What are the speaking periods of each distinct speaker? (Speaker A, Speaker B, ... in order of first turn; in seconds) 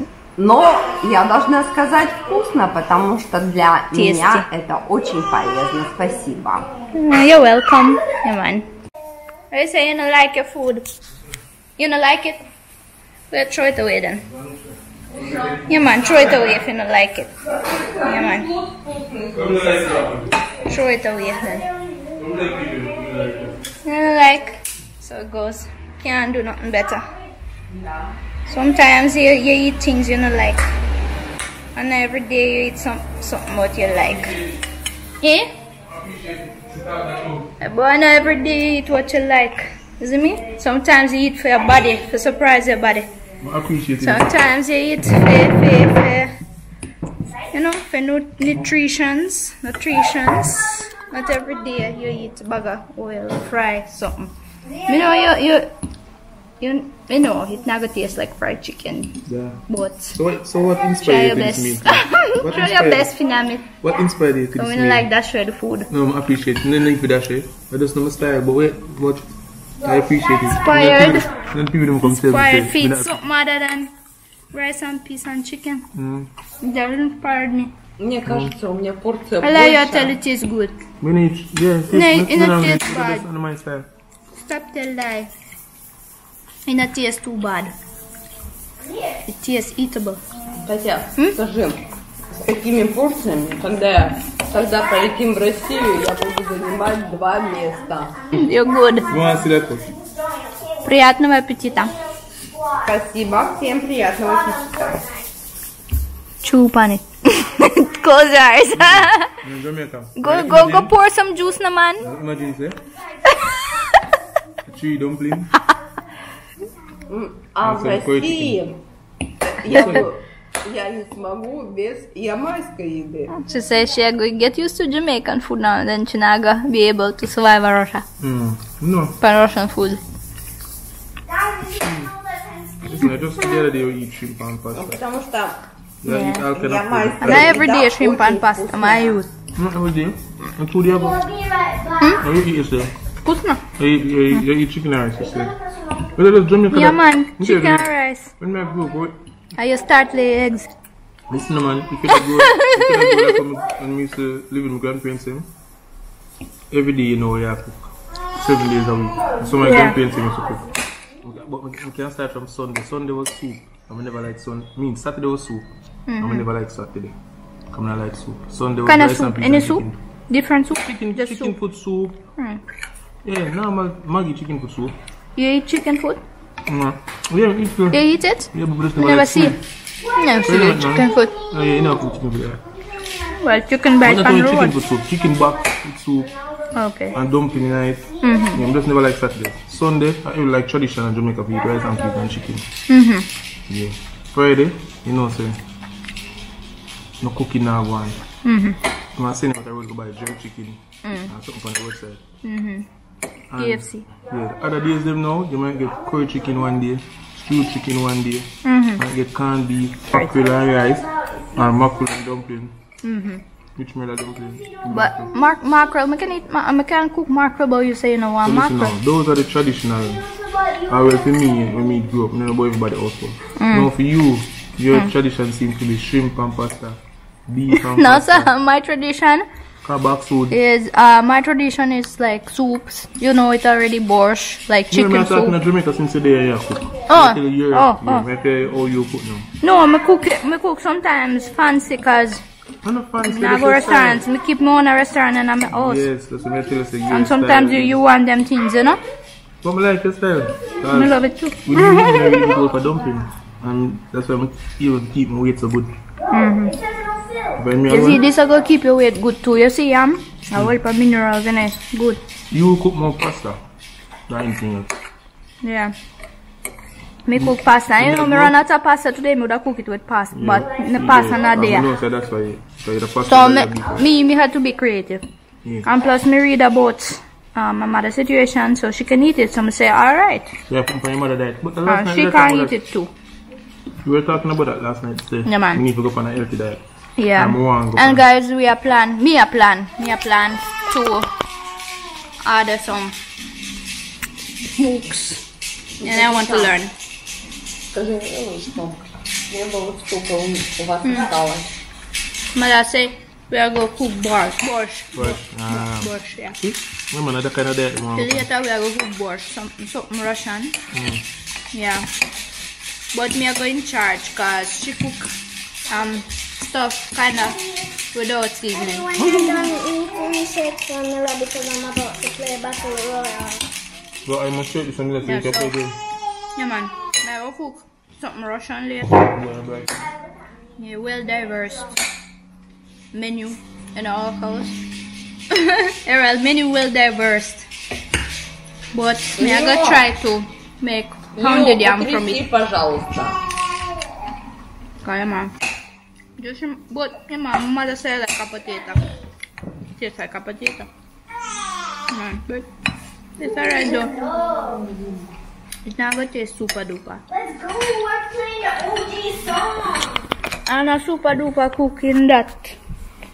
Speaker A: 0.4-6.7, 15.2-15.6, 17.8-20.1, 27.7-28.1, 78.0-80.2, 90.6-98.2, 102.8-105.0, 117.1-118.8, 119.4-123.3, 134.7-135.6, 136.5-139.2, 296.0-296.8, 297.9-301.7, 339.4-340.0, 341.4-343.4
Speaker B: 3.9-4.5, 6.9-8.7, 9.5-10.8, 11.8-12.4, 13.3-14.2, 15.7-18.5, 20.7-21.7, 23.8-27.1, 28.5-30.6, 31.8-34.4, 35.2-35.5, 37.6-43.1, 44.0-46.3, 47.5-54.3, 54.9-55.7, 56.6-60.2, 61.0-63.7, 64.6-65.9, 70.5-71.3, 72.0-73.9, 74.5-75.9, 76.6-77.7, 79.4-80.8, 81.9-83.3, 84.3-85.3, 86.7-87.8, 89.3-90.2, 98.3-99.1, 100.8-101.9, 106.4-109.3, 110.2-112.1, 113.3-114.0, 119.7-120.0, 123.3-128.1, 129.2-130.0, 136.1-136.5, 137.2-139.3, 143.2-143.7, 146.7-148.3, 149.6-150.7, 152.1-153.3, 159.6-160.0, 166.1-166.5, 168.9-171.6, 175.4-176.2, 177.9-179.6, 180.1-181.3, 183.4-184.8, 186.7-187.2, 188.2-188.6, 192.9-193.3, 198.4-198.8, 201.0-201.3, 202.4-202.9, 203.5-204.1, 208.6-209.0, 213.0-213.4, 214.9-218.9, 223.6-223.9, 227.7-229.5, 230.5-235.6, 237.1-238.3, 239.6-242.4, 243.2-246.1, 247.1-249.0, 250.9-252.2, 256.3-256.8, 257.9-262.2, 265.6-265.9, 267.2-271.9, 273.3-275.2, 275.8-280.6, 281.9-283.1, 285.5-285.8, 287.2-291.3, 292.4-293.2, 294.8-295.4, 296.0-296.9, 301.0-301.3, 302.5-306.6, 308.1-310.8, 311.7-312.1, 313.1-315.3, 315.9-317.6, 318.1-319.7, 325.3-325.7, 326.6-329.2, 330.8-331.9, 333.1-334.8, 335.5-337.7, 338.9-342.4, 345.0-345.5, 346.4-349.1, 350.0-350.9, 352.1-352.7, 353.4-354.1, 355.9-357.2, 360.7-362.8
Speaker C: 14.3-16.2, 19.3-20.3, 22.2-23.6, 34.1-34.6, 35.8-37.5, 43.4-44.3, 59.3-59.6, 60.1-63.1, 63.8-65.1, 65.9-73.2, 75.9-76.3, 78.3-78.5, 81.0-83.9, 99.1-99.9, 108.7-110.9, 112.0-112.8, 114.7-115.5, 117.6-118.6, 119.7-120.0, 128.2-129.2, 131.8-132.1, 132.8-135.0, 136.0-137.6, 139.6-141.2, 142.2-142.9, 143.8-145.6, 146.2-149.2, 151.3-155.5, 156.7-160.7, 161.2-165.7, 166.2-167.2, 167.7-170.0, 170.8-172.2, 173.2-174.9, 176.7-179.6, 180.4-182.6, 184.0-186.3, 187.1-192.7, 193.7-195.6, 197.2-198.2, 199.2-202.2, 203.5-212.8, 213.8-215.3, 218.4-220.2, 220.9-228.5, 229.8-230.6, 234.9-239.5, 242.8-244.2, 245.7-248.0, 249.6-255.9, 257.6-258.2, 262.5-263.6, 264.3-264.9, 267.4-268.6, 270.3-274.1, 280.7-282.8, 284.0-286.8, 287.4-288.2, 305.1-308.5, 310.9-311.2, 319.2-319.6, 324.2-326.0, 329.1-330.1
Speaker D: 98.3-100.7, 102.5-102.8, 131.3-133.7, 140.9-142.2, 180.1-182.1, 182.9-183.4, 210.2-211.9, 215.1-215.5, 220.0-222.1, 252.0-252.4, 256.3-257.6, 270.9-271.7, 318.8-323.6, 353.4-354.9, 357.3-360.2